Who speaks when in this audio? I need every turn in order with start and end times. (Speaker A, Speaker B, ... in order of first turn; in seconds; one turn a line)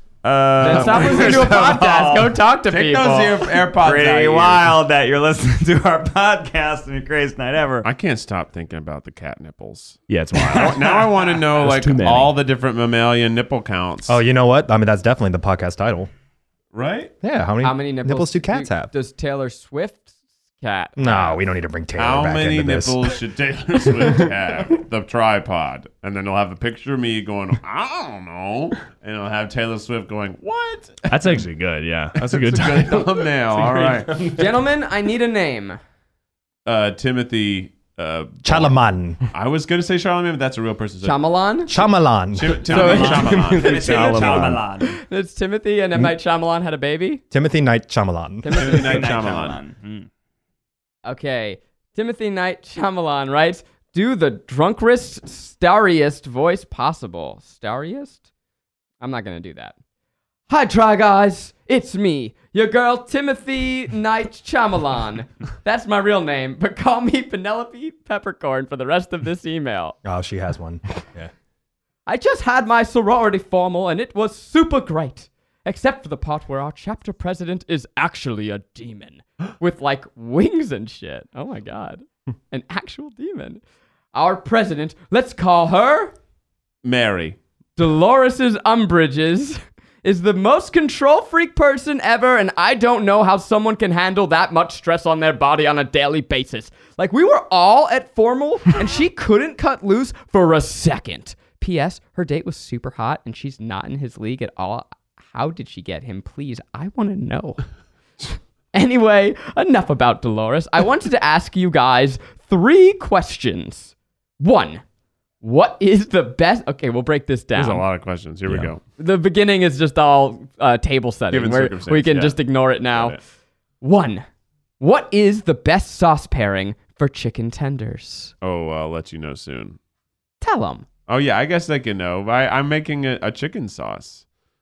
Speaker A: 0.2-2.4
Speaker B: 0.6-3.6
Speaker C: 0.6-1.6
Speaker C: 2.7-4.7
Speaker A: 3.6-7.9
Speaker C: 7.8-14.2
Speaker D: 10.1-10.9
Speaker A: 10.3-11.3
Speaker D: 11.5-12.4
Speaker E: 14.1-16.1
Speaker C: 16.7-17.1
Speaker E: 17.2-18.9
Speaker B: 17.6-21.4
Speaker E: 21.0-23.2
Speaker C: 22.0-31.4
Speaker D: 31.1-34.6
Speaker C: 32.2-34.1
Speaker B: 34.3-35.8
Speaker C: 36.6-38.8
Speaker E: 38.4-39.2
Speaker C: 39.3-41.2
Speaker B: 41.0-41.8
Speaker E: 41.7-42.8
Speaker C: 42.3-44.6
Speaker A: 42.7-45.0
Speaker B: 42.7-43.3
Speaker D: 43.0-44.6
Speaker B: 44.8-47.2
Speaker E: 47.3-48.5
Speaker B: 48.4-49.1
Speaker A: 48.5-50.1
Speaker C: 48.5-49.6
Speaker B: 51.0-58.2
Speaker B: 59.0-59.7
Speaker B: 60.5-70.0
Speaker E: 70.0-71.3
Speaker B: 72.0-83.6
Speaker B: 84.1-86.1
Speaker C: 86.8-87.4
Speaker B: 87.8-107.6
Speaker B: 108.7-114.8
Speaker B: 115.4-117.8
Speaker C: 117.5-118.8
Speaker B: 119.0-123.2
Speaker C: 121.3-122.4
Speaker C: 122.9-123.2
Speaker B: 123.8-124.2
Speaker B: 124.8-128.3
Speaker C: 128.4-129.8
Speaker B: 130.4-130.8
Speaker C: 131.1-134.2